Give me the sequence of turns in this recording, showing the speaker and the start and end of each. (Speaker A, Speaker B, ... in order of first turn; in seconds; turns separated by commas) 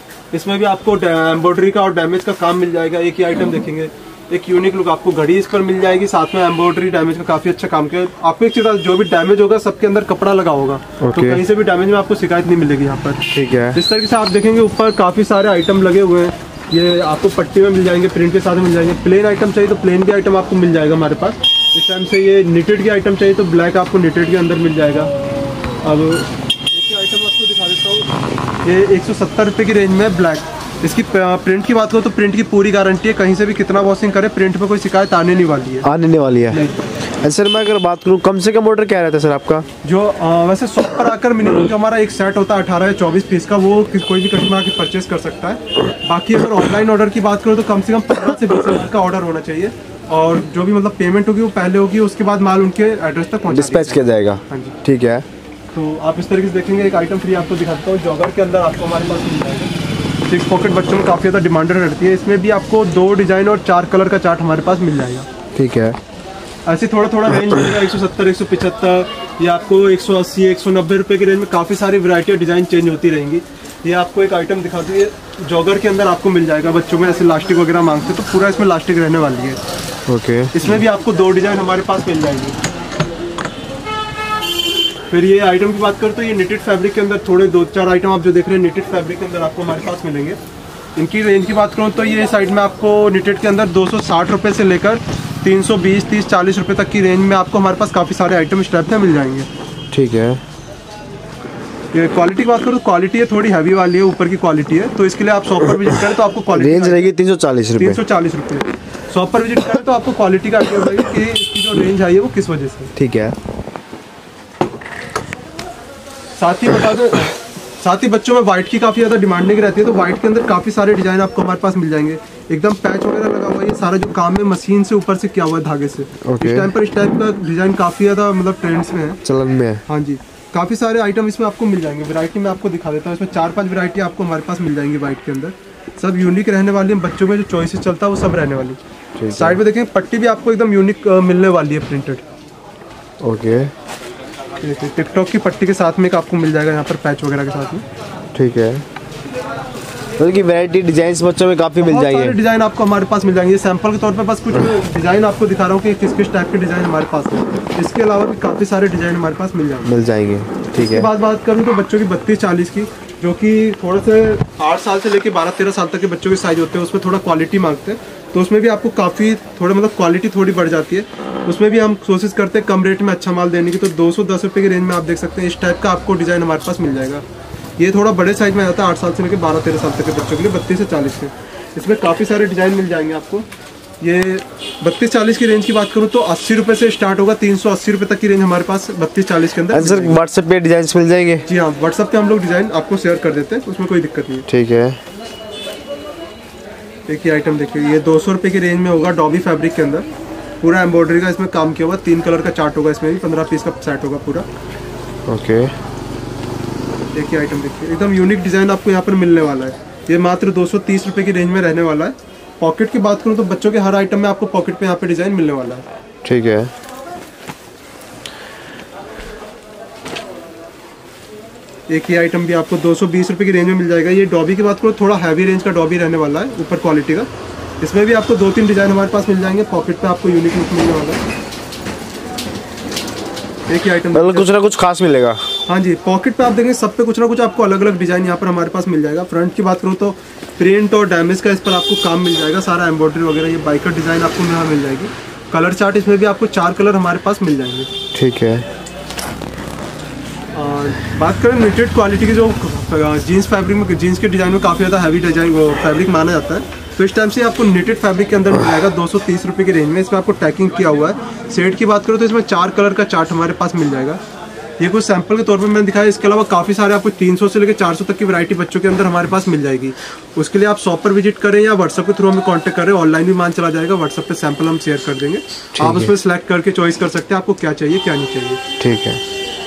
Speaker A: 0.3-25.1, Speaker B: 11.0-11.4, Speaker B: 13.3-13.8, Speaker A: 25.8-35.9, Speaker B: 35.8-36.6, Speaker A: 36.5-36.8, Speaker B: 37.2-39.6, Speaker A: 39.8-54.8, Speaker B: 53.5-55.2, Speaker A: 55.7-59.7, Speaker A: 60.3-65.3, Speaker B: 65.5-66.0, Speaker A: 66.7-79.6, Speaker B: 80.1-80.8, Speaker A: 80.5-82.6, Speaker A: 85.1-90.4, Speaker A: 91.0-99.5, Speaker B: 99.9-100.4, Speaker A: 101.9-107.1, Speaker B: 106.5-108.0, Speaker A: 107.8-112.9, Speaker B: 113.0-113.3, Speaker A: 116.4-129.2, Speaker B: 126.2-126.7, Speaker B: 129.2-129.8, Speaker A: 129.9-138.8, Speaker B: 139.2-139.6, Speaker A: 139.3-142.2, Speaker B: 143.2-143.7, Speaker A: 144.6-147.8, Speaker B: 148.3-148.8, Speaker B: 150.2-152.4, Speaker A: 151.8-159.9, Speaker B: 159.8-161.1, Speaker A: 160.8-177.2, Speaker A: 177.8-183.4, Speaker A: 184.0-190.2, Speaker B: 189.7-191.5, Speaker A: 191.5-194.4, Speaker B: 194.5-195.0, Speaker A: 197.1-200.1, Speaker A: 200.6-204.4, Speaker B: 205.3-205.7, Speaker A: 207.1-215.8, Speaker B: 216.2-216.7, Speaker A: 221.9-227.3, Speaker A: 227.8-231.2, Speaker A: 233.7-234.5, Speaker B: 234.1-235.4, Speaker A: 235.7-247.9, Speaker B: 248.1-248.7, Speaker A: 250.5-264.2, Speaker A: 264.8-278.6, Speaker B: 275.8-276.1, Speaker B: 278.8-279.2